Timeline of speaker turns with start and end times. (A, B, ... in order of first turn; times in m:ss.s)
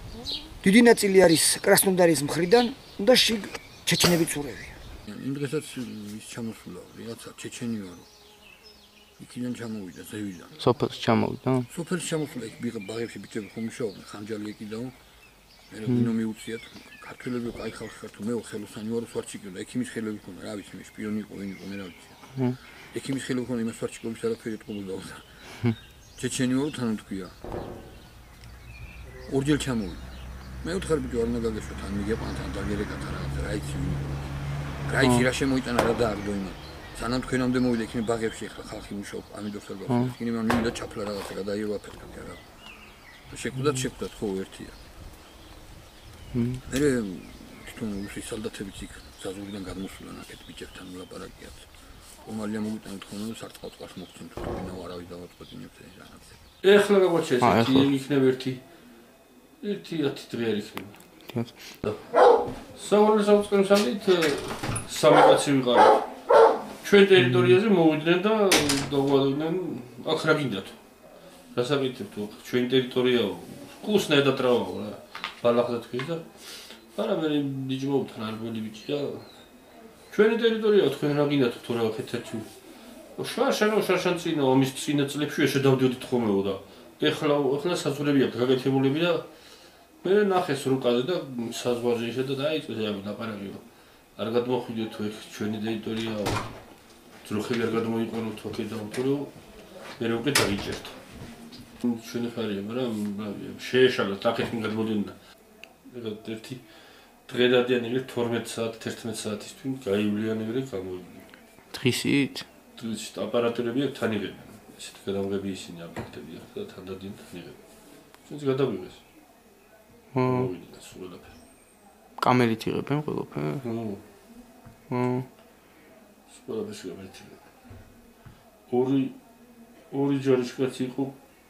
0:00.6-0:04.7 A
0:05.1-0:08.1 B
0:09.2-0:10.6 B
0:10.6-0:11.7 C
0:11.7-0:15.0 B
0:15.7-0:22.2 B
0:22.9-0:25.3 B
0:26.2-0:27.4 B
0:29.3-0:30.1 B
0:30.6-0:34.3 B
0:34.9-0:42.4 B
0:43.3-0:44.8 B
0:46.3-0:46.6 C
0:46.6-0:51.7 B
0:52.2-0:56.4 B
0:56.6-0:58.6 D
0:57.4-0:57.9 C
0:59.6-1:01.0 D
1:02.8-1:06.1 D
1:06.8-1:10.8 D
1:11.5-1:19.3 D
1:20.1-1:22.5 D
1:23.2-1:29.3 D
1:30.0-1:33.6 D
1:34.2-1:36.5 D
1:37.2-1:39.3 D
1:40.0-1:41.0 D
1:41.8-1:45.2 D
1:45.8-1:46.6 D
1:47.3-1:51.3 D
1:51.7-1:52.4 C
1:52.8-1:57.6 D
1:58.2-1:59.0 D
2:00.1-2:00.5 C
2:00.3-2:01.3 D
2:02.2-2:03.6 C
2:03.6-2:04.0 D
2:04.9-2:05.3 C
2:06.3-2:07.4 D
2:08.7-2:09.2 D
2:09.9-2:11.2 D